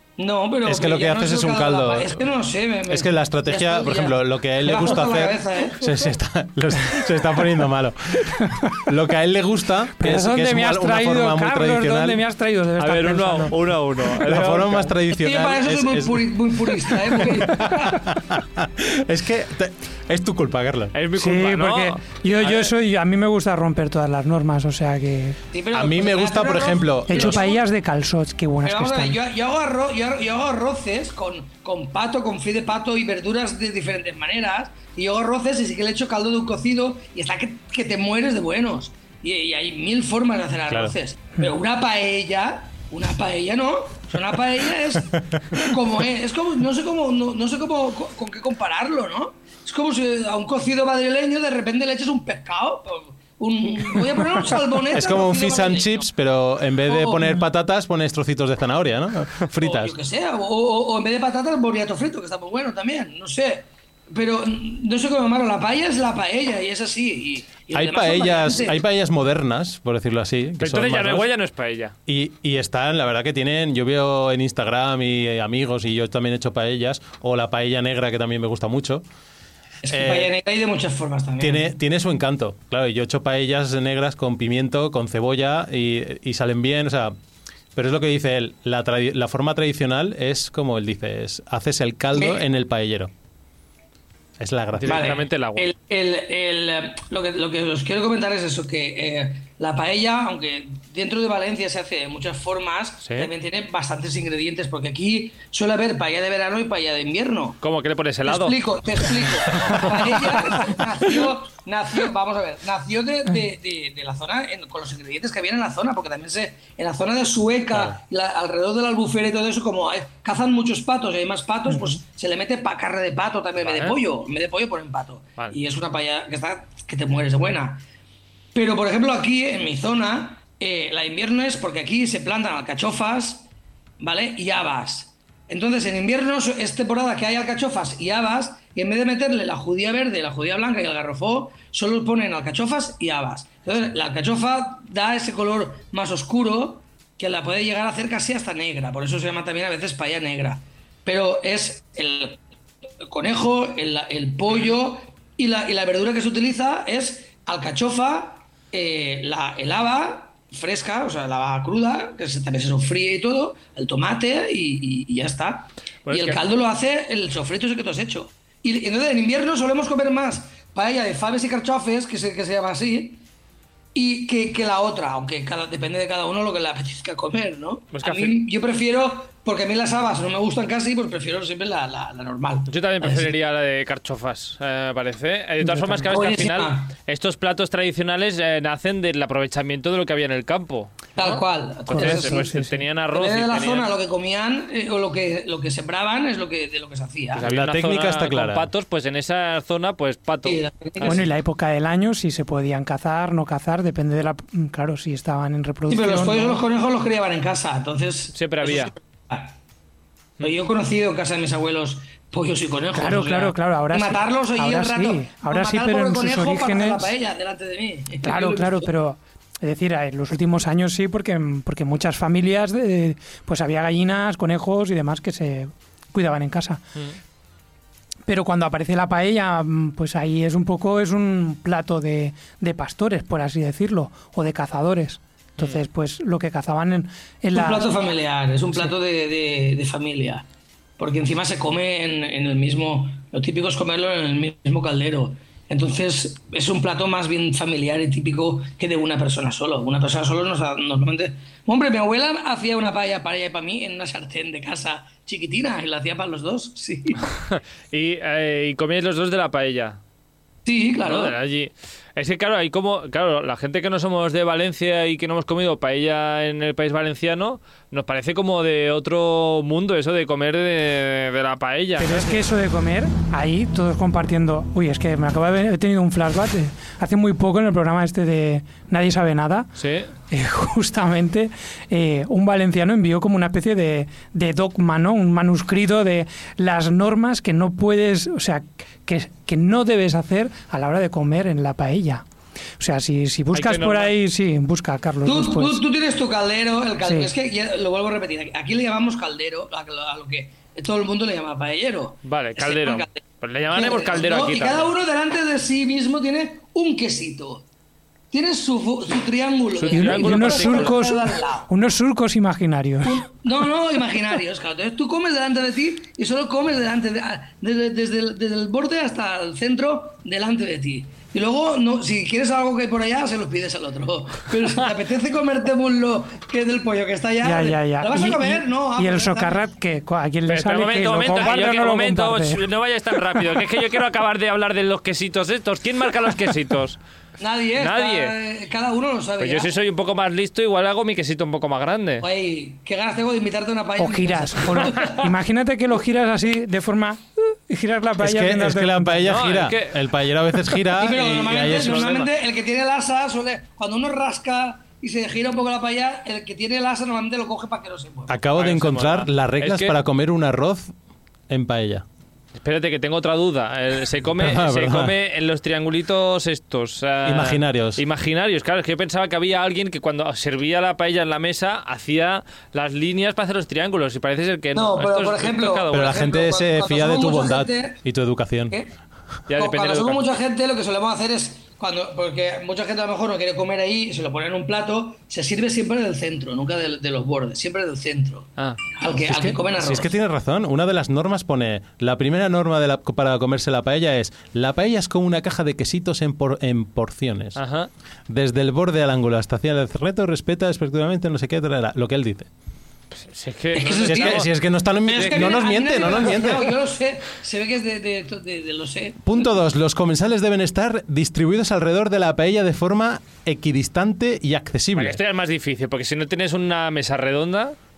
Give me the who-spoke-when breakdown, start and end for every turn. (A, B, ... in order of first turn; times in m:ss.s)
0:00.2-0:06.0 A
0:00.6-0:02.2 B
0:02.9-0:12.2 B
0:10.0-0:13.6 C
0:12.8-0:14.9 D
0:14.2-0:21.0 B
0:15.1-0:18.0 A
0:20.9-0:22.7 D
0:21.2-0:25.4 C
0:25.5-0:27.6 A
0:25.7-0:27.4 B
0:27.1-0:29.2 C
0:28.6-0:56.1 A
0:40.7-0:41.0 B
0:45.2-0:45.7 B
0:54.9-1:00.0 B
0:56.9-0:57.4 A
0:59.6-1:08.8 A
1:07.7-1:11.3 B
1:10.6-1:12.0 D
1:12.1-1:19.0 B
1:19.8-1:21.7 A
1:19.9-1:20.3 B
1:21.4-1:27.1 B
1:27.8-1:33.1 B
1:34.4-1:35.2 B
1:34.7-1:35.7 D
1:34.9-1:47.6 A
1:43.0-1:43.3 D
1:47.6-1:48.6 D
1:48.2-2:07.8 A
1:49.7-1:49.9 D
2:03.6-2:04.0 D
2:08.5-2:13.5 A
2:14.0-2:32.4 A
2:33.0-2:53.2 A
2:46.1-2:46.4 D
2:54.0-3:03.3 A
2:57.9-2:58.4 D
3:02.7-3:13.9 D
3:05.6-3:06.1 C
3:06.1-3:06.9 A
3:11.2-3:12.5 A
3:11.9-3:12.8 C
3:13.1-3:17.5 A
3:17.4-3:21.2 D
3:17.5-3:18.7 B
3:20.4-3:21.3 A
3:21.0-3:26.6 C
3:25.9-3:29.6 A
3:28.3-3:28.9 D
3:30.4-3:38.9 A
3:32.9-3:37.1 C
3:38.2-3:46.8 C
3:48.3-3:57.9 C
3:57.6-4:00.4 A
4:01.0-4:17.2 A
4:17.5-4:20.0 D
4:20.6-4:21.4 A
4:21.0-4:32.4 D
4:32.0-4:39.7 C
4:39.8-4:40.1 D
4:40.3-4:52.2 C
4:52.8-4:55.8 C
4:53.5-4:54.1 D
4:55.2-5:07.6 A
4:57.0-4:57.3 C
5:02.2-5:04.9 D
5:08.3-5:11.7 A
5:09.8-5:11.0 D
5:09.9-5:13.3 C
5:13.0-5:29.7 A
5:27.4-5:32.7 C
5:30.5-5:37.0 D
5:37.4-5:39.7 A
5:37.8-5:38.4 D
5:39.4-5:42.3 D
5:42.2-5:45.3 A
5:44.0-5:49.3 C
5:48.2-5:52.2 B
5:49.2-5:50.0 D
5:50.9-5:58.4 A
5:51.5-5:52.3 D
5:58.3-6:00.9 B
5:58.6-6:00.0 D
6:01.5-6:02.0 B
6:02.6-6:16.2 D
6:04.4-6:05.2 B
6:07.2-6:08.0 B
6:14.7-6:18.0 A
6:15.9-6:18.8 B
6:19.5-6:20.2 D
6:19.5-6:30.1 A
6:29.2-6:37.6 B
6:37.6-6:37.9 D
6:38.3-6:42.5 B
6:43.1-6:44.5 D
6:43.7-6:44.5 A
6:44.0-6:46.7 B
6:45.0-6:49.3 A
6:49.2-6:55.2 B
6:55.0-6:57.8 D